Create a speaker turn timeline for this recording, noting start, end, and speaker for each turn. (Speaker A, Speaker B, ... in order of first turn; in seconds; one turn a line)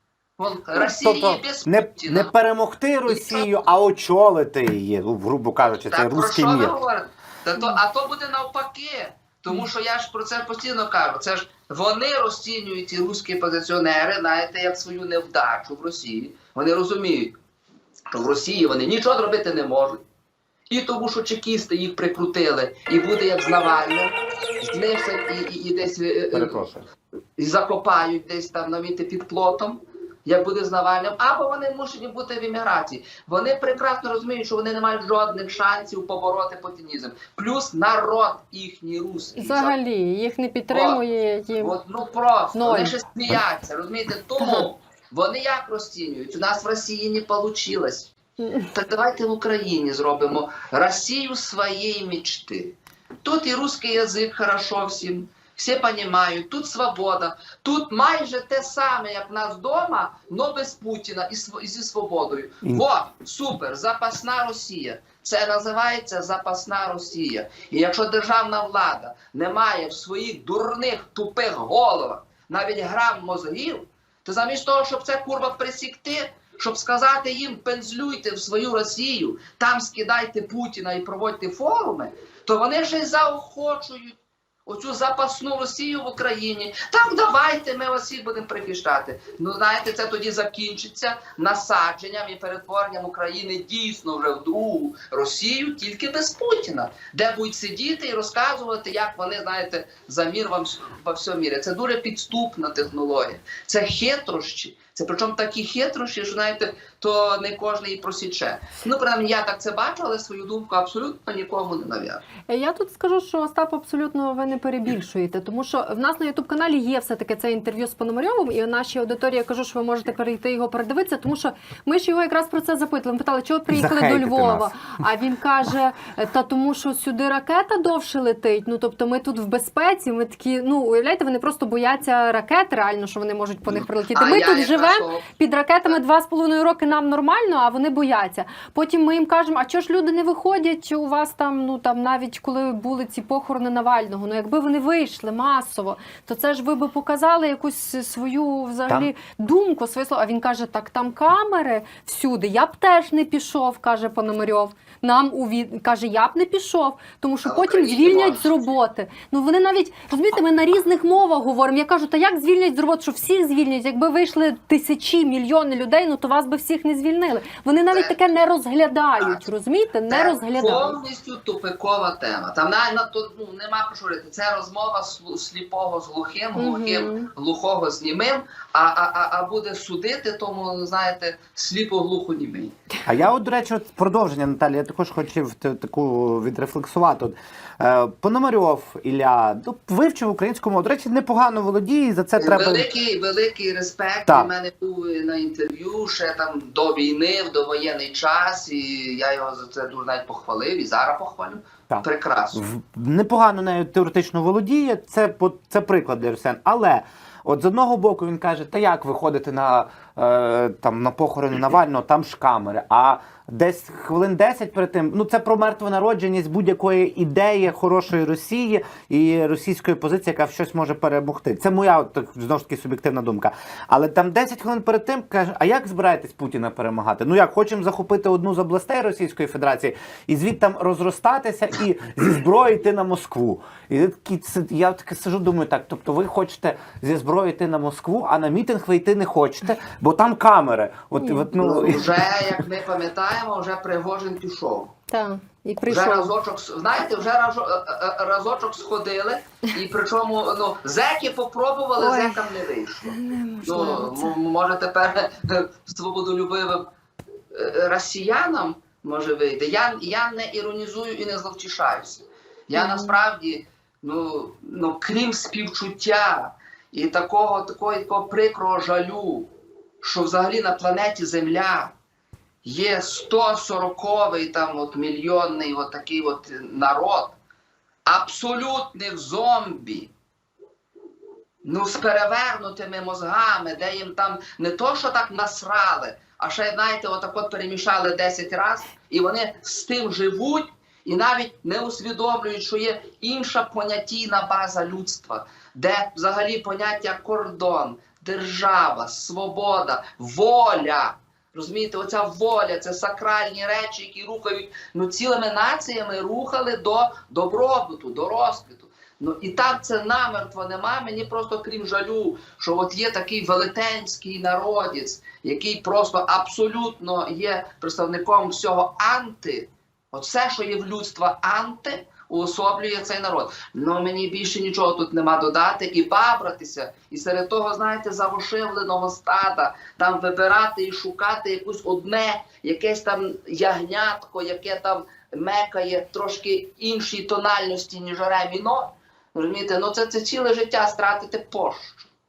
Speaker A: 0.4-2.3
Speaker B: 0.8-6.8
Speaker A: 3.1-3.5
Speaker A: 5.9-17.4
Speaker A: 18.1-20.0
Speaker A: 20.7-26.6
Speaker B: 26.3-26.9
Speaker A: 27.4-39.8
Speaker C: 39.4-41.8
Speaker A: 40.7-41.0
Speaker A: 41.6-48.1
Speaker C: 42.6-43.0
Speaker C: 44.4-44.7
Speaker C: 48.4-48.7
Speaker A: 48.7-112.2
Speaker C: 112.5-171.0
Speaker B: 123.7-124.7
Speaker A: 133.7-135.3
Speaker A: 157.4-158.6
Speaker A: 167.9-168.2
Speaker A: 170.1-182.8
Speaker C: 176.6-177.3
Speaker B: 183.1-192.9
Speaker A: 192.4-202.6
Speaker B: 201.9-242.6
Speaker C: 241.2-241.5
Speaker A: 241.6-244.9
Speaker C: 245.1-246.3
Speaker A: 245.8-256.9
Speaker C: 252.0-254.3
Speaker A: 257.5-269.5
Speaker C: 262.8-263.2
Speaker A: 270.0-271.9
Speaker A: 272.6-277.4
Speaker A: 278.1-280.1
Speaker A: 281.6-342.1